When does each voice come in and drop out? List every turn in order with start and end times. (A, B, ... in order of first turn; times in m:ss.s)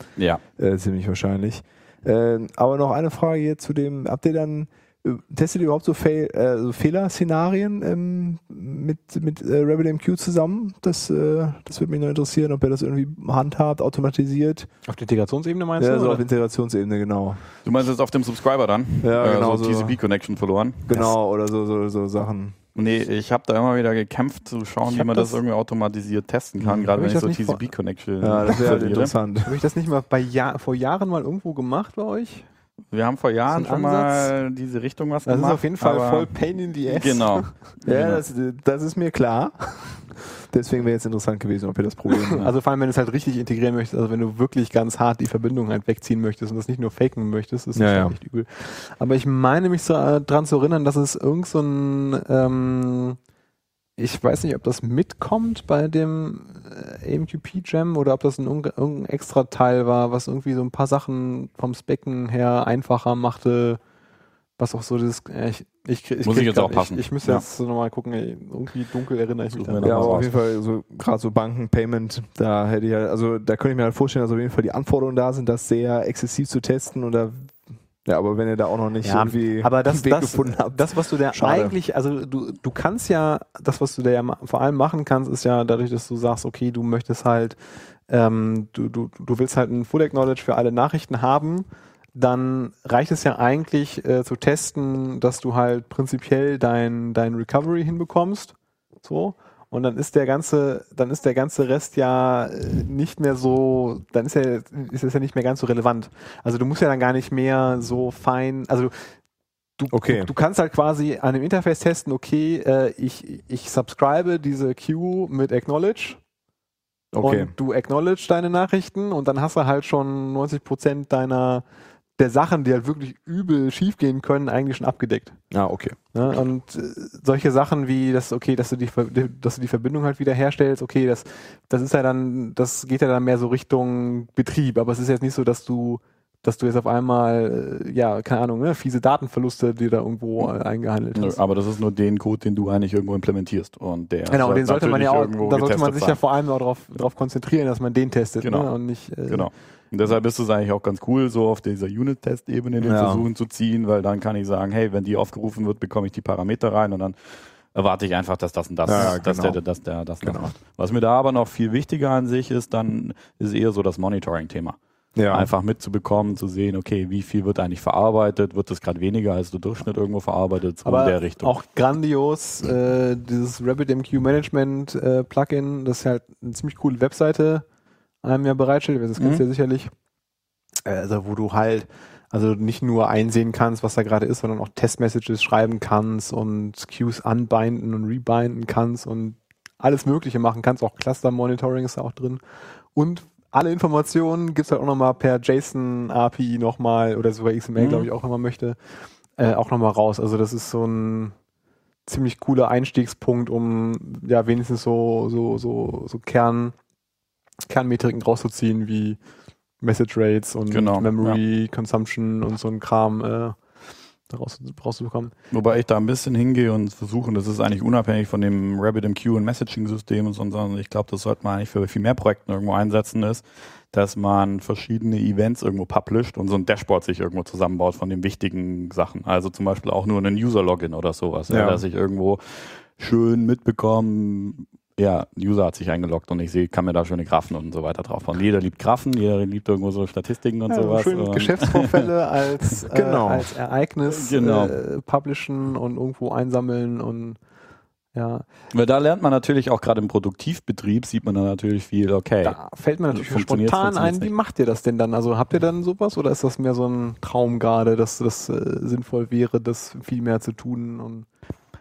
0:00.6-0:14.7 A
0:14.9-0:16.2 B
0:15.8-0:17.4 A
0:17.6-0:21.1 C
0:19.0-0:20.0 A
0:20.9-0:22.6 A
0:22.8-0:29.1 C
0:24.9-0:25.4 B
0:26.9-0:27.6 B
0:28.2-0:29.6 A
0:29.4-0:32.5 B
0:32.9-0:36.3 C
0:33.5-0:34.3 B
0:35.3-0:37.5 B
0:36.9-0:38.2 C
0:37.9-0:42.5 A
0:42.1-0:53.2 B
0:47.8-0:48.2 A
0:54.0-1:03.8 B
1:04.6-1:10.2 B
1:06.2-1:07.4 C
1:09.5-1:10.3 C
1:09.8-1:17.5 A
1:18.0-1:21.8 A
1:19.0-1:27.6 B
1:28.1-1:48.9 B
1:49.8-1:56.2 B
1:49.9-1:50.3 A
1:57.1-1:57.5 A
1:57.2-2:01.6 B
2:02.2-2:05.4 B
2:05.5-2:06.0 A
2:06.1-2:21.4 B
2:21.2-2:26.2 C
2:24.3-2:29.5 B
2:28.4-2:28.7 C
2:29.3-2:44.8 C
2:32.8-2:33.3 A
2:38.9-2:39.6 A
2:40.2-2:40.5 A
2:45.2-2:45.5 A
2:45.3-2:51.5 C
2:50.8-2:57.6 B
2:58.2-2:59.9 B
2:59.2-2:59.4 C
3:00.8-3:12.4 B
3:13.0-3:18.8 B
3:17.8-3:18.1 C
3:19.4-3:21.4 B
3:22.1-3:26.8 B
3:27.7-3:29.2 B
3:29.8-3:33.6 B
3:30.7-3:31.4 C
3:34.3-3:35.3 B
3:35.5-4:02.1 C
3:51.5-3:51.8 A
4:00.7-4:07.4 B
4:02.9-4:03.5 A
4:04.1-4:04.8 C
4:08.1-4:08.4 B
4:08.7-4:12.6 C
4:12.4-4:21.3 B
4:13.1-4:14.3 C